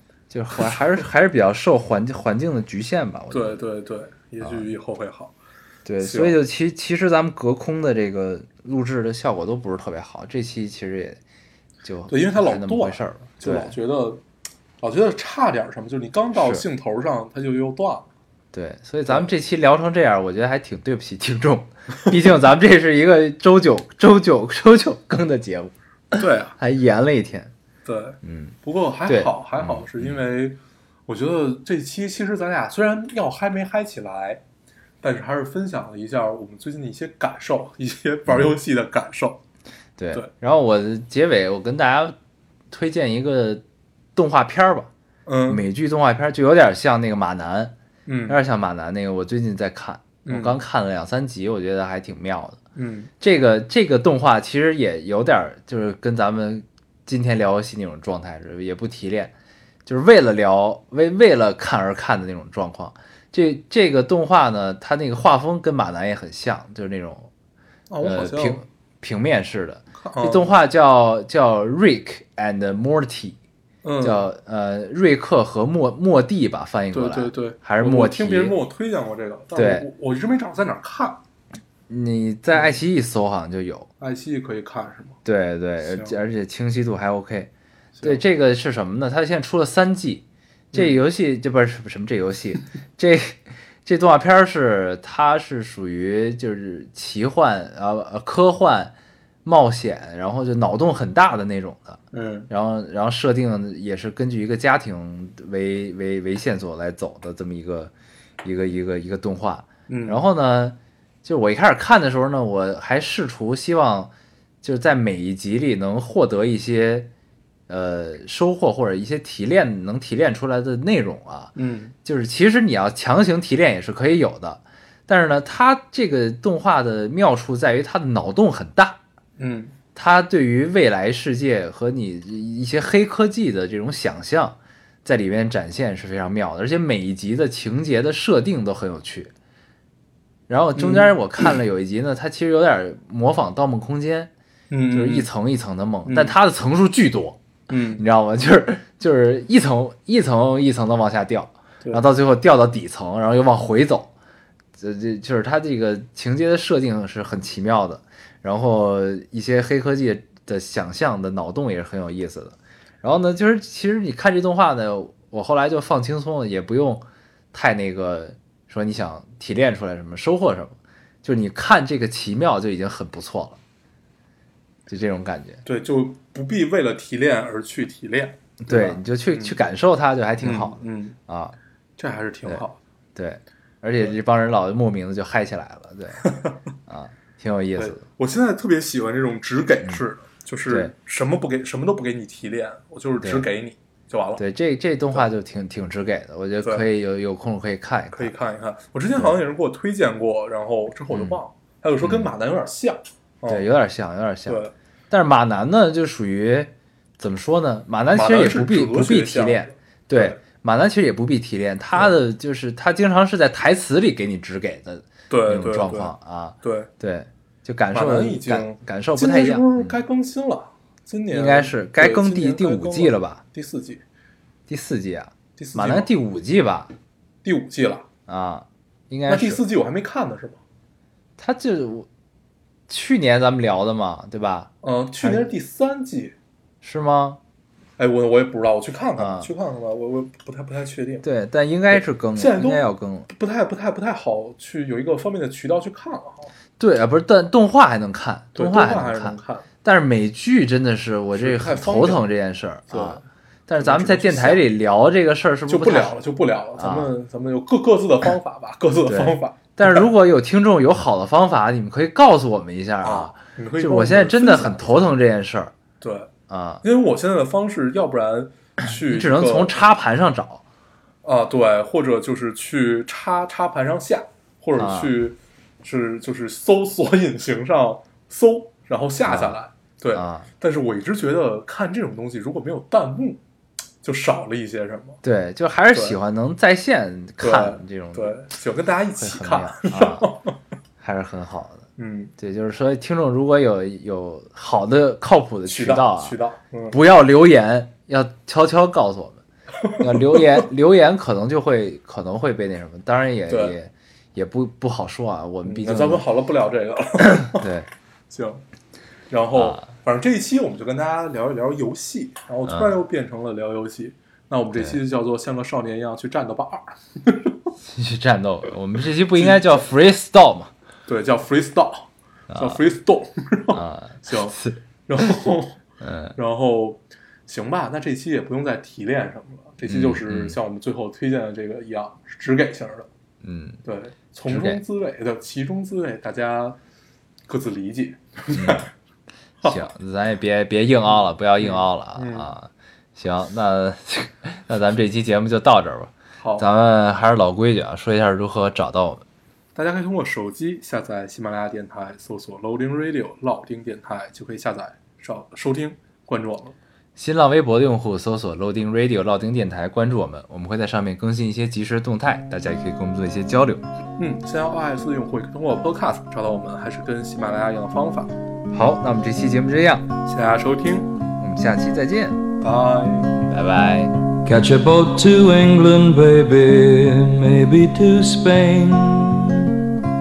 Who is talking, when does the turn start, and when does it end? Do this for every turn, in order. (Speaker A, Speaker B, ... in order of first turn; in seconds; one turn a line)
Speaker A: 0.3-3.6
Speaker B: 3.3-5.3
Speaker A: 4.4-4.7
Speaker A: 5.8-11.2
Speaker B: 6.0-6.4
Speaker A: 11.8-13.7
Speaker B: 12.1-14.2
Speaker B: 14.8-18.1
Speaker A: 16.4-16.6
Speaker A: 18.5-27.5
Speaker B: 26.2-26.6
Speaker B: 27.9-34.4
Speaker A: 28.2-30.2
Speaker B: 35.0-39.4
Speaker A: 38.3-38.5
Speaker A: 40.0-42.1
Speaker A: 42.7-43.6
Speaker A: 44.2-44.9
Speaker B: 45.3-45.6
Speaker A: 45.5-47.8
Speaker B: 48.1-48.4
Speaker A: 48.3-52.6
Speaker B: 50.3-50.6
Speaker B: 52.8-53.1
Speaker A: 53.2-59.3
Speaker A: 59.9-67.3
Speaker B: 67.9-68.6
Speaker A: 68.0-73.4
Speaker B: 70.0-70.5
Speaker B: 73.8-74.3
Speaker A: 74.0-78.6
Speaker B: 76.9-81.2
Speaker A: 79.5-79.9
Speaker A: 81.9-83.9
Speaker B: 84.0-85.2
Speaker A: 85.2-87.5
Speaker B: 85.8-86.2
Speaker B: 88.0-88.2
Speaker A: 88.0-98.9
Speaker B: 90.7-91.0
Speaker A: 99.5-117.1
Speaker B: 102.1-102.5
Speaker B: 109.9-110.2
Speaker A: 117.7-129.0
Speaker B: 121.6-121.9
Speaker B: 129.4-129.7
Speaker A: 129.9-139.3
Speaker A: 140.5-144.3
Speaker B: 140.8-141.6
Speaker B: 144.7-145.3
Speaker A: 144.9-147.4
Speaker B: 146.1-146.3
Speaker B: 147.7-148.1
Speaker A: 147.9-154.1
Speaker A: 154.8-173.6
Speaker A: 174.9-175.6
Speaker B: 175.7-179.6
Speaker A: 178.6-181.6
Speaker B: 180.4-181.2
Speaker B: 182.0-182.8
Speaker A: 183.2-186.3
Speaker B: 186.2-186.6
Speaker A: 186.9-188.0
Speaker B: 187.8-194.4
Speaker A: 190.7-190.9
Speaker A: 193.2-193.5
Speaker A: 194.4-198.3
Speaker B: 196.6-196.9
Speaker B: 198.1-203.7
Speaker A: 201.1-201.4
Speaker A: 202.0-202.3
Speaker A: 203.5-219.9
Speaker B: 204.5-204.7
Speaker B: 208.1-210.4
Speaker B: 215.3-216.1
Speaker B: 216.6-216.9
Speaker B: 217.9-224.0
Speaker A: 221.3-223.4
Speaker A: 224.7-226.9
Speaker B: 225.6-226.1
Speaker B: 227.4-228.1
Speaker A: 228.3-229.6
Speaker B: 229.3-230.6
Speaker A: 231.4-232.1
Speaker A: 232.9-234.7
Speaker B: 234.8-236.3
Speaker A: 236.8-237.4
Speaker B: 238.0-241.3
Speaker A: 239.2-239.5
Speaker A: 241.2-243.3
Speaker B: 241.9-246.5
Speaker A: 246.8-256.2
Speaker B: 248.6-249.7
Speaker B: 251.3-252.2
Speaker B: 252.9-253.2
Speaker B: 253.8-254.6
Speaker B: 255.7-260.1
Speaker A: 256.8-257.1
Speaker A: 259.1-265.7
Speaker B: 263.0-265.1
Speaker B: 266.0-266.3
Speaker A: 266.5-266.8
Speaker B: 266.8-269.8
Speaker A: 269.1-270.6
Speaker B: 271.2-283.4
Speaker A: 274.8-275.1
Speaker A: 279.3-279.6
Speaker A: 280.1-280.5
Speaker B: 284.0-285.2
Speaker A: 285.2-288.3
Speaker B: 287.4-290.6
Speaker A: 289.2-290.4
Speaker A: 291.0-291.9
Speaker B: 292.0-292.3
Speaker A: 292.4-296.4
Speaker B: 295.7-297.0
Speaker A: 296.9-299.4
Speaker B: 299.8-300.6
Speaker A: 300.0-306.2
Speaker B: 303.5-303.8
Speaker B: 305.6-307.7
Speaker A: 307.2-307.9
Speaker B: 308.3-308.6
Speaker B: 309.3-317.6
Speaker A: 309.6-309.9
Speaker A: 312.7-313.0
Speaker A: 317.8-320.7
Speaker B: 319.3-319.8
Speaker B: 321.1-324.6
Speaker A: 322.5-322.8
Speaker A: 323.7-325.4
Speaker B: 325.1-325.8
Speaker A: 326.0-326.4
Speaker B: 326.4-333.1
Speaker A: 329.9-330.6
Speaker A: 333.4-333.8
Speaker B: 333.9-336.8
Speaker A: 334.5-334.8
Speaker B: 337.5-338.9
Speaker A: 338.5-338.9
Speaker A: 339.6-349.2
Speaker B: 341.6-342.5
Speaker B: 346.4-346.7
Speaker B: 349.8-356.8
Speaker A: 357.2-363.8
Speaker B: 364.2-368.3
Speaker A: 368.7-370.1
Speaker B: 370.3-371.1
Speaker A: 371.4-372.4
Speaker B: 372.6-373.3
Speaker A: 373.5-374.1
Speaker C: 374.4-379.7